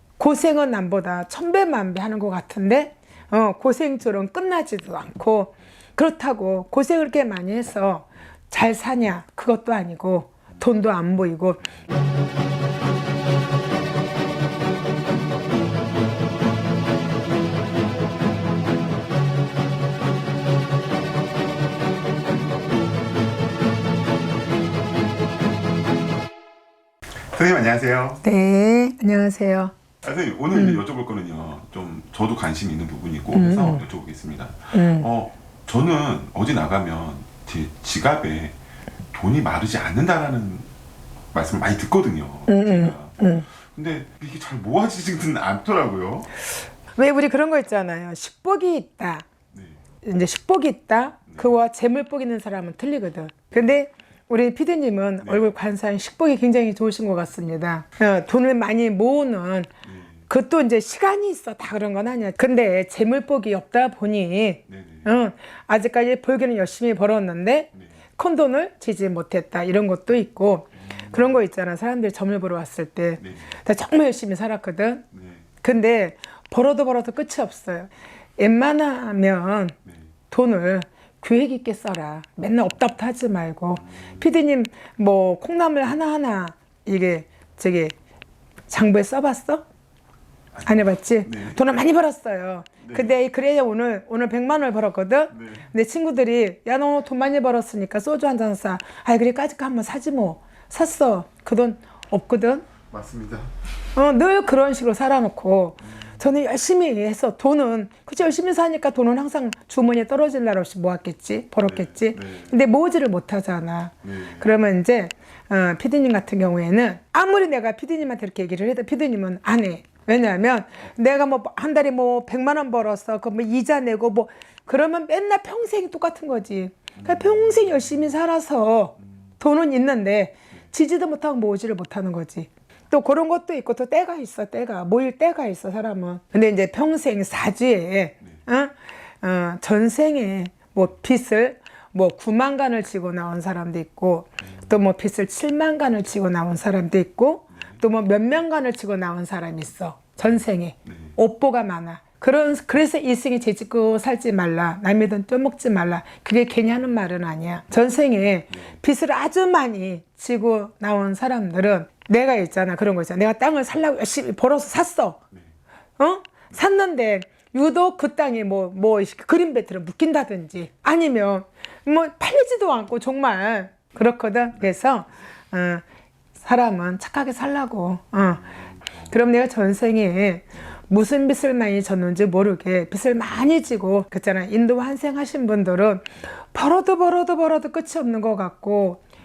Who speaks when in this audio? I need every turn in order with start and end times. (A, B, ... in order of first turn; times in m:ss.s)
0:00.2-0:11.6 A
0:27.3-0:28.2 B
0:28.2-0:29.7 A
0:30.0-0:38.6 B
0:30.5-0:30.8 A
0:33.3-0:33.8 A
0:34.7-0:35.1 A
0:39.1-0:40.7 B
0:41.3-0:46.3 B
0:42.5-0:43.4 A
0:47.0-0:49.3 A
0:49.5-0:49.8 B
0:50.0-0:59.7 A
0:55.2-0:55.5 B
0:59.8-1:00.2 B
1:00.3-1:15.1 A
1:04.7-1:05.1 B
1:15.1-1:15.5 B
1:15.6-1:19.8 A
1:20.3-1:28.0 A
1:28.7-1:29.6 A
1:30.5-1:31.6 B
1:30.6-1:42.7 A
1:32.8-1:33.1 B
1:35.3-1:35.7 B
1:42.9-1:43.5 B
1:44.0-2:45.2 A
1:51.6-1:52.5 B
1:54.0-1:54.5 B
2:07.0-2:07.4 B
2:46.0-2:55.8 A
2:56.4-2:58.5 A
2:59.0-3:09.0 A